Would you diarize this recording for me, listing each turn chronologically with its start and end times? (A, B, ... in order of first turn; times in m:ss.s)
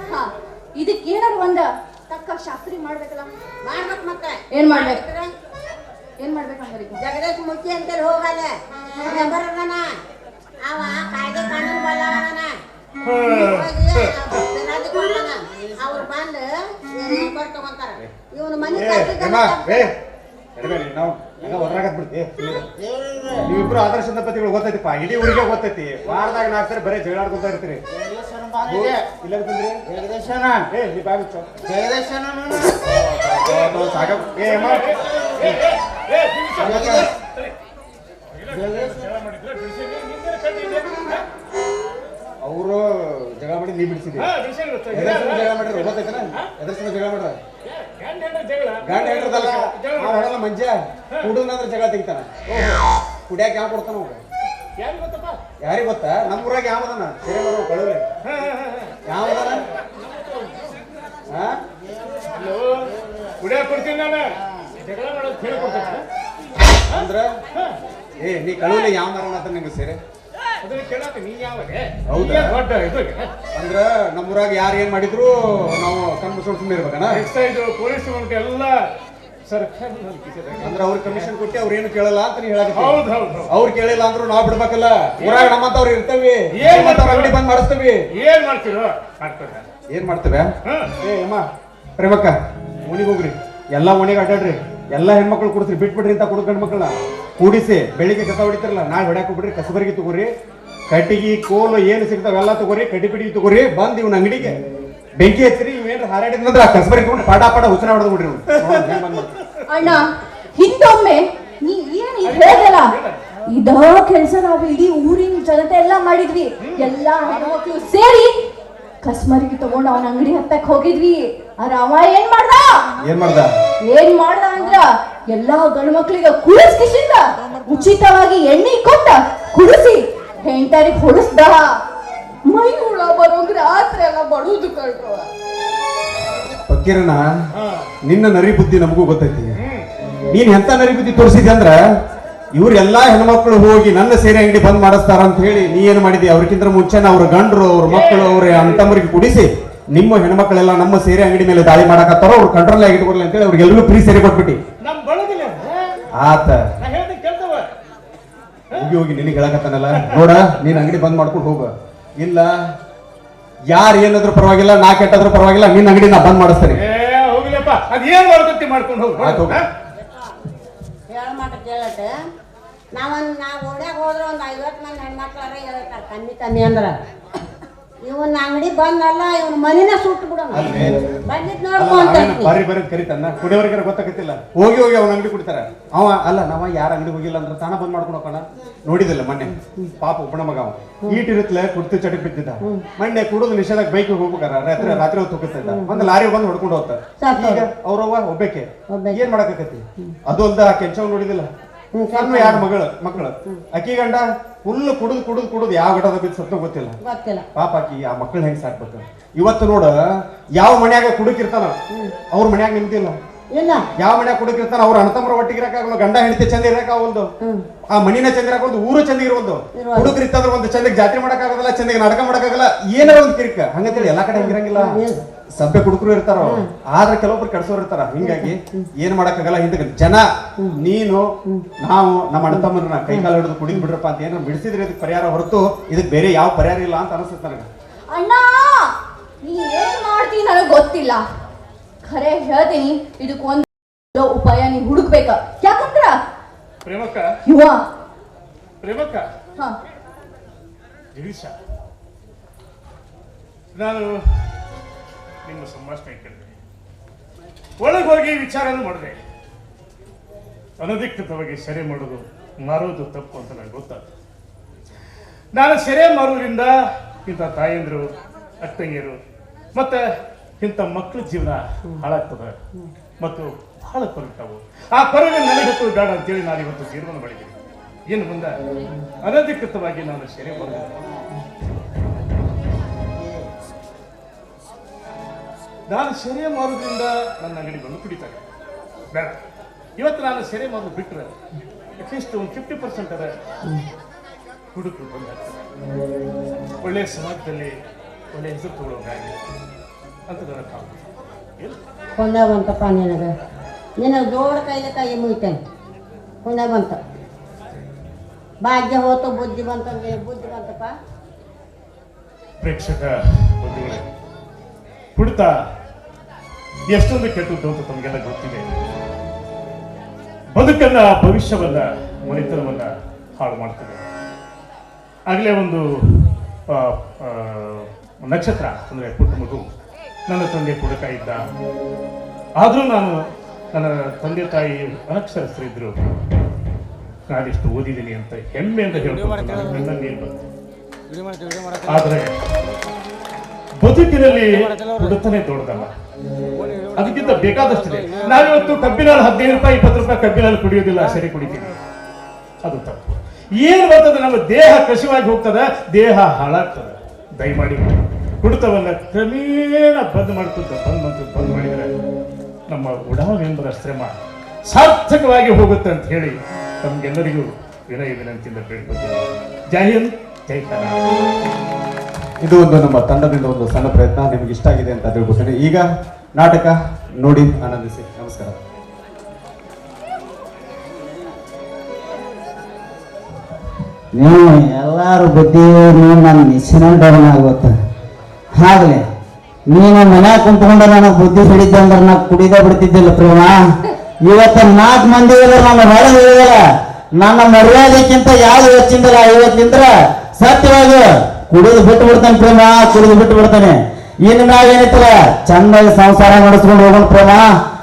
0:00.1-0:03.3 A
0:03.6-0:05.3 B
0:04.5-0:05.0 A
0:06.2-0:07.0 A
0:07.0-0:08.5 B
0:09.0-0:09.9 B
0:10.6-0:12.5 B
0:13.0-0:14.1 C
0:13.3-0:19.9 B
0:18.7-0:19.9 D
0:20.6-0:22.7 D
0:22.8-0:23.5 E
0:23.4-0:27.8 D
0:28.0-0:29.0 E
0:28.7-0:29.8 D
0:29.9-0:30.6 E
0:30.7-0:31.5 D
0:31.6-0:32.8 E
0:32.9-0:35.6 D
0:33.5-0:33.8 C
0:34.4-0:37.5 C
0:36.6-0:37.1 E
0:36.6-0:37.1 D
0:38.4-0:41.2 C
0:38.6-0:38.9 E
0:42.4-0:44.3 D
0:44.2-0:46.5 C
0:44.9-0:47.4 D
0:47.6-0:50.3 C
0:48.8-0:52.5 D
0:52.5-0:52.8 C
0:53.3-0:54.2 D
0:54.8-0:55.4 C
0:55.6-0:58.0 D
0:58.3-1:00.7 C
0:59.1-0:59.6 D
1:01.3-1:01.6 D
1:02.3-1:02.8 C
1:03.4-1:06.0 C
1:06.9-1:07.3 D
1:06.9-1:07.7 C
1:08.2-1:10.0 D
1:10.6-1:13.3 C
1:12.1-1:12.6 D
1:13.6-1:17.2 D
1:17.1-1:18.8 C
1:19.5-1:21.3 C
1:20.6-1:28.0 D
1:22.7-1:23.5 C
1:25.2-1:25.6 C
1:26.5-1:27.4 C
1:28.1-1:29.7 C
1:29.9-1:31.4 D
1:32.0-1:40.3 D
1:40.9-1:44.6 D
1:45.2-1:49.3 D
1:48.6-1:49.5 C
1:49.7-1:52.9 A
1:52.2-1:53.2 C
1:53.5-1:58.3 A
1:56.6-1:56.9 C
1:59.0-2:02.8 A
2:03.0-2:03.5 D
2:03.8-2:11.8 A
2:12.5-2:15.3 A
2:16.7-2:17.2 D
2:17.6-2:17.9 C
2:18.0-2:19.5 D
2:19.6-2:19.9 C
2:20.3-2:21.8 D
2:22.5-2:34.6 D
2:27.9-2:28.9 C
2:34.8-2:36.0 C
2:36.1-2:36.6 D
2:36.8-2:37.7 C
2:38.7-2:42.5 D
2:43.7-2:46.8 D
2:46.7-2:49.7 C
2:49.2-2:49.6 D
2:51.1-2:52.1 B
2:52.9-2:57.0 B
2:58.0-3:02.6 B
3:00.6-3:01.0 D
3:01.8-3:21.5 D
3:09.5-3:09.9 B
3:15.7-3:16.1 B
3:17.2-3:17.7 B
3:18.9-3:19.2 B
3:22.0-3:22.7 B
3:22.2-3:27.0 D
3:27.0-3:27.4 B
3:27.6-3:29.9 D
3:30.6-3:31.8 D
3:32.3-3:33.2 D
3:33.5-3:33.8 B
3:34.0-3:37.3 D
3:37.9-3:45.0 D
3:39.8-3:40.2 B
3:44.0-3:45.2 B
3:45.6-3:50.2 D
3:48.2-3:48.9 B
3:50.8-3:57.7 D
3:52.5-3:53.8 B
3:58.1-4:01.2 A
4:02.0-4:06.2 A
4:06.8-4:07.3 C
4:07.5-4:07.9 A
4:08.8-4:09.3 C
4:11.1-4:11.6 C
4:13.8-4:14.6 C
4:15.4-4:16.6 C
4:17.8-4:19.2 C
4:20.8-4:24.1 C
4:25.6-4:26.7 C
4:27.3-4:28.1 C
4:28.6-4:29.2 C
4:29.8-4:30.0 C
4:30.6-4:32.5 C
4:33.2-4:37.6 C
4:38.1-4:38.6 C
4:39.2-4:41.0 C
4:45.9-4:48.4 C
4:49.1-4:49.4 C
4:50.0-4:51.4 C
4:52.0-4:53.3 C
4:54.7-4:55.6 C
4:56.8-4:57.7 C
4:58.3-4:59.4 C
5:00.3-5:01.1 C
5:02.2-5:03.3 B
5:04.0-5:05.6 B
5:06.4-5:07.0 B
5:08.6-5:10.9 B
5:12.6-5:14.1 C
5:15.2-5:15.5 C
5:16.9-5:18.7 C
5:20.5-5:24.0 C
5:25.3-5:29.7 C
5:30.3-5:31.4 C
5:32.6-5:33.2 C
5:33.7-5:36.0 C
5:37.3-5:40.4 C
5:41.9-5:42.3 C
5:43.8-5:45.9 C
5:46.9-5:51.8 C
5:52.6-6:01.9 C
6:02.7-6:04.1 C
6:04.7-6:11.0 C
6:12.4-6:15.8 D
6:16.4-6:18.6 D
6:24.2-6:27.7 E
6:28.6-6:29.0 E
6:29.7-6:33.6 E
6:34.2-6:36.6 E
6:37.2-6:47.5 E